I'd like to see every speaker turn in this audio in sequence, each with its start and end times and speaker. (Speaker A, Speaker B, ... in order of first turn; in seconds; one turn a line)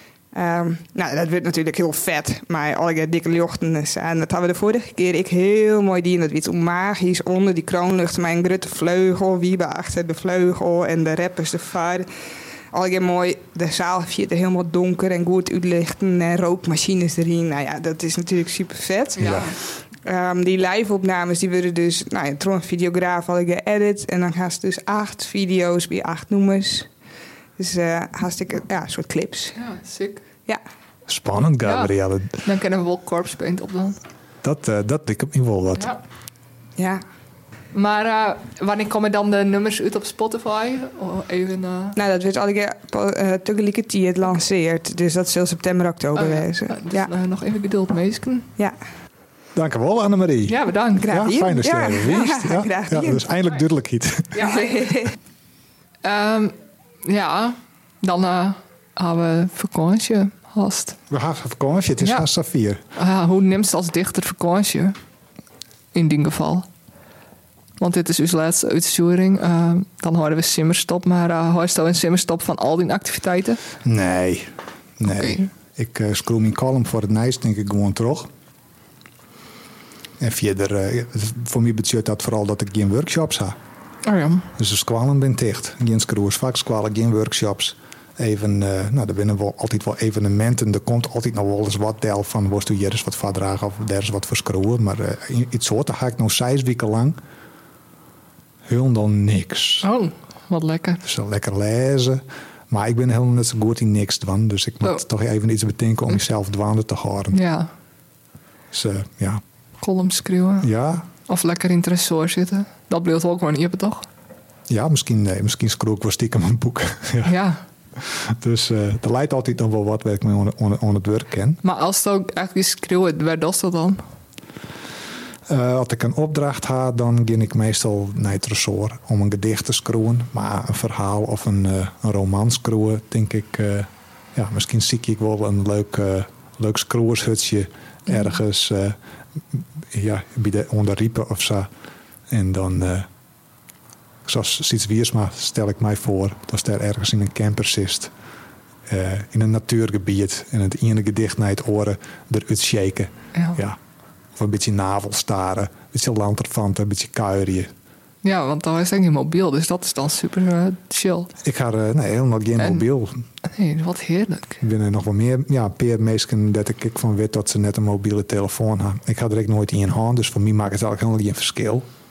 Speaker A: 0.3-12.1
Speaker A: 12.7-26.9
Speaker B: 19.2-19.6
Speaker C: 19.2-19.5
Speaker A: 27.6-29.6
Speaker B: 29.6-30.2
Speaker C: 31.1-32.4
Speaker B: 31.6-34.0
Speaker C: 34.4-35.9
Speaker A: 36.8-37.0
Speaker B: 37.7-42.0
Speaker A: 42.0-47.1
Speaker B: 46.1-48.5
Speaker C: 49.5-54.4
Speaker B: 50.5-51.2
Speaker A: 51.0-53.3
Speaker B: 54.3-54.9
Speaker A: 54.4-55.1
Speaker B: 56.0-61.0
Speaker C: 61.1-62.8
Speaker B: 62.0-62.3
Speaker B: 63.0-65.0
Speaker B: 65.9-66.7
Speaker B: 67.8-73.6
Speaker C: 73.8-78.3
Speaker B: 75.0-75.5
Speaker C: 80.2-83.6
Speaker B: 84.0-84.5
Speaker C: 84.6-97.2
Speaker C: 98.7-99.9
Speaker B: 99.8-101.0
Speaker C: 101.0-107.4
Speaker B: 107.3-107.7
Speaker C: 108.7-109.4
Speaker B: 109.8-110.7
Speaker C: 110.6-111.1
Speaker B: 111.3-114.1
Speaker C: 114.7-117.3
Speaker B: 117.2-117.6
Speaker C: 118.0-121.6
Speaker B: 121.6-124.0
Speaker C: 125.5-139.0
Speaker C: 139.5-141.7
Speaker C: 142.3-143.1
Speaker C: 144.2-148.1
Speaker C: 148.9-153.8
Speaker C: 154.4-157.7
Speaker B: 158.2-161.3
Speaker C: 161.4-163.2
Speaker B: 162.6-162.8
Speaker B: 163.4-164.6
Speaker C: 164.6-171.9